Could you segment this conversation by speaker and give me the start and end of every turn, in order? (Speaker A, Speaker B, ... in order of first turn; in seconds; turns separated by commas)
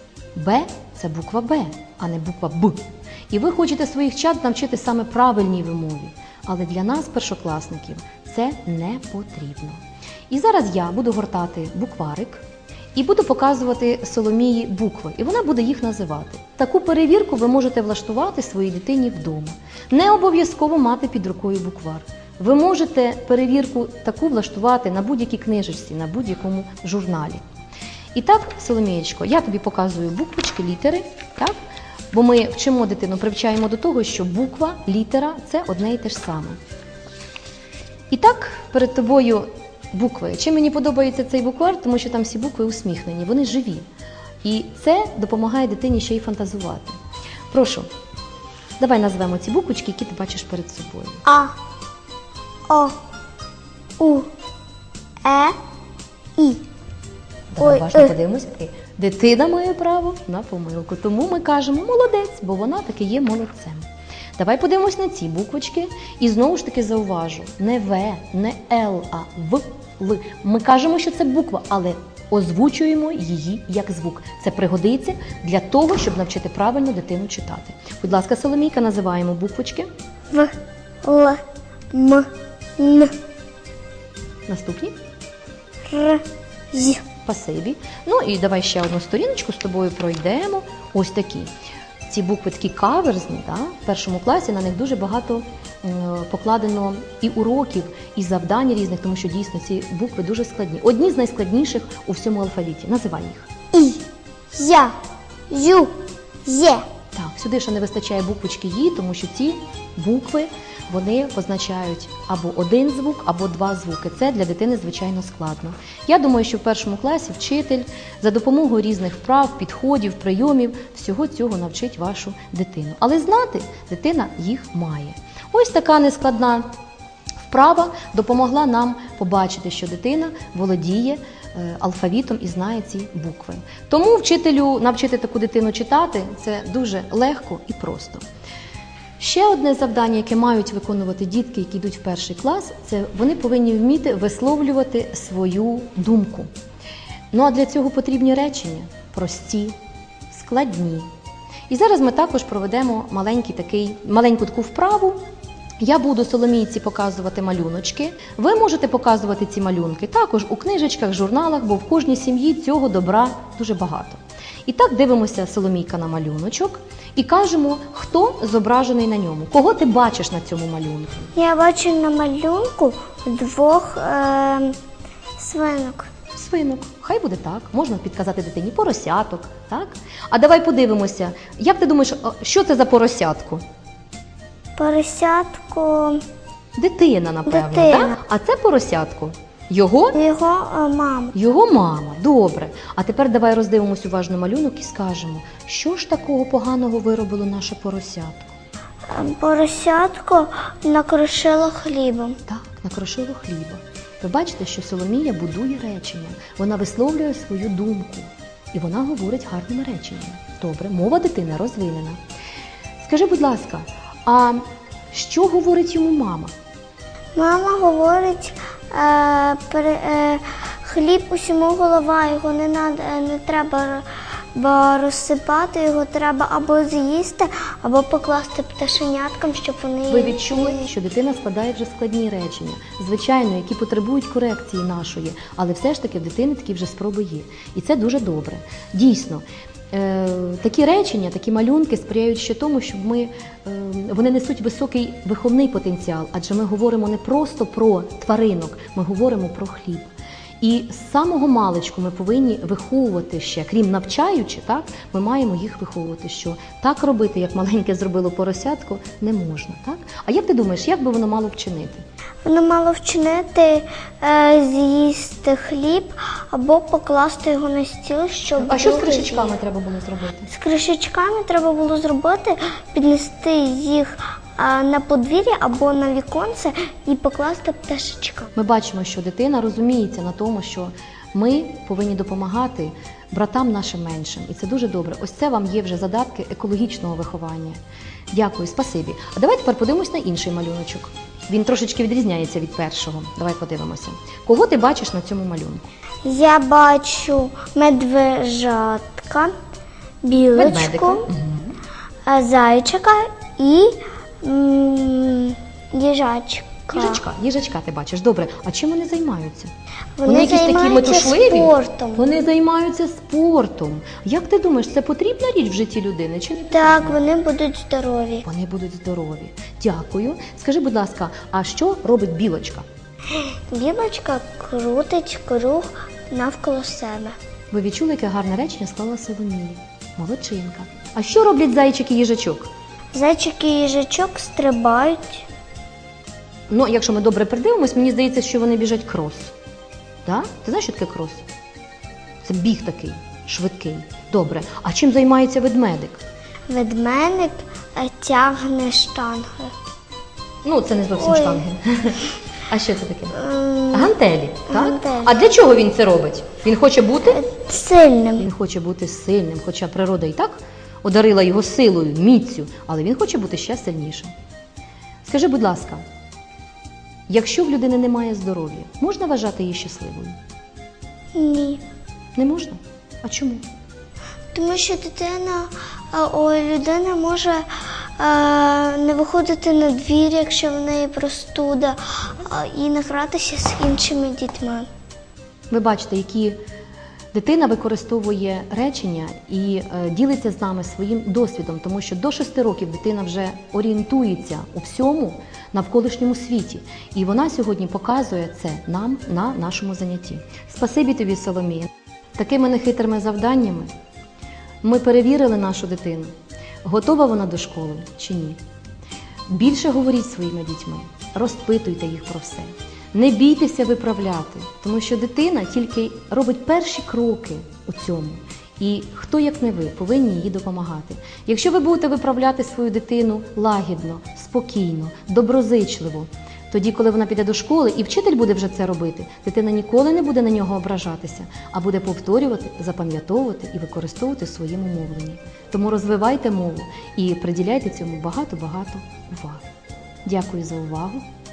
Speaker A: 0.3-12.4, Speaker A: 12.9-27.4, Speaker A: 28.1-31.6, Speaker A: 32.1-36.6, Speaker A: 38.1-43.8, Speaker A: 44.4-47.0, Speaker A: 47.5-47.9, Speaker A: 48.8-51.2, Speaker B: 51.2-51.5, Speaker B: 52.7-52.9, Speaker B: 54.0-54.3, Speaker B: 55.2-55.5, Speaker B: 56.4-56.6, Speaker A: 57.5-79.9, Speaker B: 57.6-58.1, Speaker B: 80.3-81.4, Speaker B: 81.9-83.1, Speaker A: 84.5-84.9, Speaker B: 85.9-87.0, Speaker A: 87.2-91.5, Speaker A: 92.1-103.5, Speaker B: 103.7-104.0, Speaker B: 104.5-104.9, Speaker B: 105.5-106.8, Speaker A: 107.1-126.7, Speaker A: 127.5-138.2, Speaker A: 139.2-146.5, Speaker A: 147.3-149.7, Speaker A: 150.3-151.1, Speaker A: 151.7-155.2, Speaker A: 155.8-171.3, Speaker B: 171.3-174.7, Speaker B: 175.4-176.1, Speaker A: 176.3-183.6, Speaker B: 184.8-186.2, Speaker A: 186.8-190.2, Speaker B: 187.5-188.2, Speaker B: 190.1-191.3, Speaker A: 191.3-198.5, Speaker B: 199.1-202.4, Speaker A: 202.5-212.2, Speaker A: 213.0-216.5, Speaker B: 217.3-230.9, Speaker A: 230.1-262.0, Speaker B: 262.4-269.5, Speaker A: 268.6-270.5, Speaker B: 270.5-278.5, Speaker A: 278.6-287.8, Speaker A: 288.3-295.9, Speaker B: 296.2-299.5, Speaker B: 300.2-301.3, Speaker A: 300.5-301.8, Speaker B: 302.2-307.2, Speaker A: 306.9-309.7, Speaker B: 310.2-312.4, Speaker A: 310.2-317.2, Speaker B: 316.7-318.4, Speaker A: 318.4-322.9, Speaker B: 323.3-327.3, Speaker A: 327.7-332.7, Speaker B: 333.1-335.4, Speaker A: 336.7-339.5, Speaker A: 340.2-341.4, Speaker A: 342.4-346.2, Speaker B: 346.7-349.7, Speaker A: 350.6-357.4, Speaker B: 351.2-351.6, Speaker B: 353.4-354.1, Speaker B: 354.7-355.4, Speaker B: 357.3-358.4, Speaker A: 358.4-364.3, Speaker A: 365.2-366.0, Speaker A: 367.3-370.4, Speaker B: 371.3-371.8, Speaker A: 372.4-373.6, Speaker B: 374.5-384.9, Speaker A: 385.7-386.6, Speaker A: 387.3-403.9, Speaker A: 404.8-406.3, Speaker A: 406.8-408.6, Speaker A: 409.5-439.7, Speaker A: 440.2-441.2